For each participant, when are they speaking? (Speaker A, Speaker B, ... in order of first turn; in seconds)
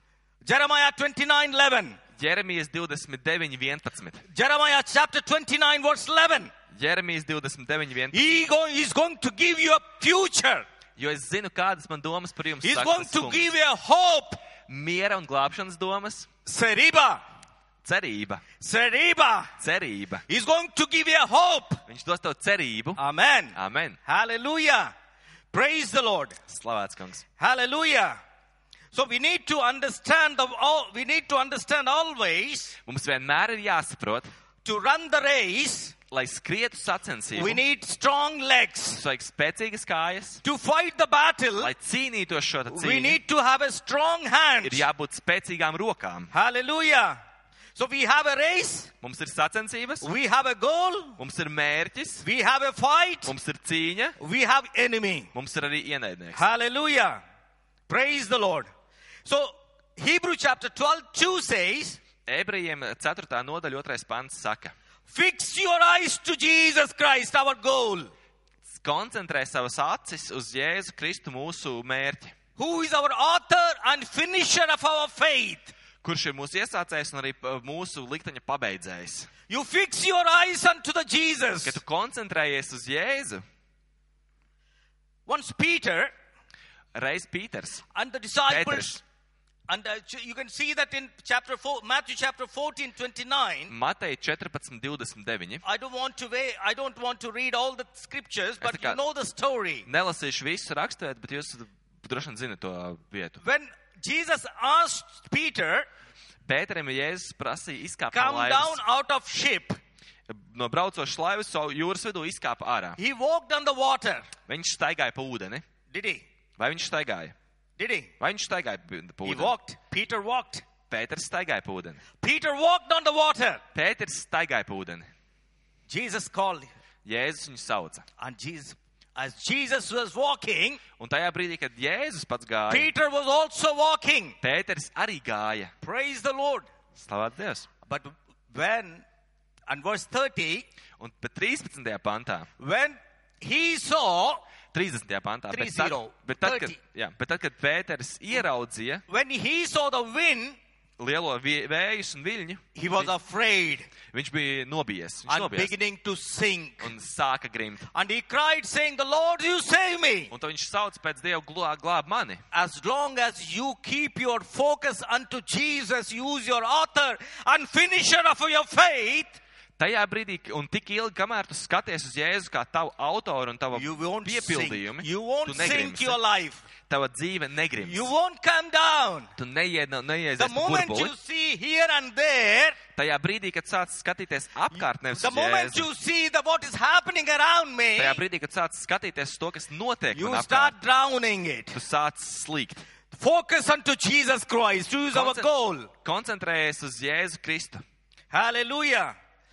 Speaker A: 0.4-2.0, 4.3-6.5, 8.1-10.7, 12.6-14.4, 16.4-17.2, 18.6-19.5, 20.3-21.8, 23.0-24.9, 25.5-26.4, 27.4-28.2, 28.9-32.8, 34.6-35.9, 37.3-39.0, 40.4-41.7, 42.7-44.9, 46.3-47.2, 47.8-48.9, 50.0-51.2, 52.2-53.3, 54.2-55.3, 56.3-57.2, 57.9-58.7, 59.2-62.0, 65.1-68.1, 72.6-75.7, 79.5-81.8, 85.3-86.1, 87.9-89.0, 89.7-93.7, 95.6-99.9, 103.4-105.9, 108.1-109.8, 113.0-114.3, 115.9-116.2, 117.8-118.1, 119.2-120.6, 122.2-123.6, 125.9-126.7, 128.2-130.8, 132.7-134.4, 135.8-136.7, 137.9-139.0, 139.7-140.7, 142.6-144.4, 145.5-146.8, 149.1-150.6, 152.7-153.9, 155.3-156.9, 157.9-160.3, 162.5-169.4, 173.7-176.6, 177.8-179.3, 180.4-182.8, 185.1-188.2, 190.1-191.8, 193.1-195.9, 198.3-199.1
Speaker B: 2.2-4.2, 6.7-8.2, 11.0-13.5, 14.7-16.3, 17.8-18.4, 19.6-20.2, 21.9-23.0, 23.5-24.0, 26.5-27.2, 32.9-34.3, 36.1-37.6, 38.9-40.4, 41.6-43.2, 44.6-46.3, 49.0-50.1, 51.2-52.2, 53.2-54.1, 55.3-56.4, 62.2-64.7, 68.6-72.3, 76.0-79.3, 81.6-83.4, 86.9-87.8, 88.5-89.0, 93.7-95.6, 98.6-99.0, 99.8-103.4, 106.4-108.8, 110.3-113.0, 114.5-115.6, 116.6-117.3, 118.2-119.5, 120.9-122.0, 123.7-125.0, 127.0-128.1, 131.0-132.9, 134.4-135.7, 136.9-137.7, 141.0-142.5, 144.7-149.0, 151.0-153.1, 154.1-155.7, 156.8-157.9, 160.3-162.4, 169.8-176.2, 176.9-178.1, 179.4-181.1, 182.9-185.9, 188.0-190.7, 191.7-192.8, 195.1-197.8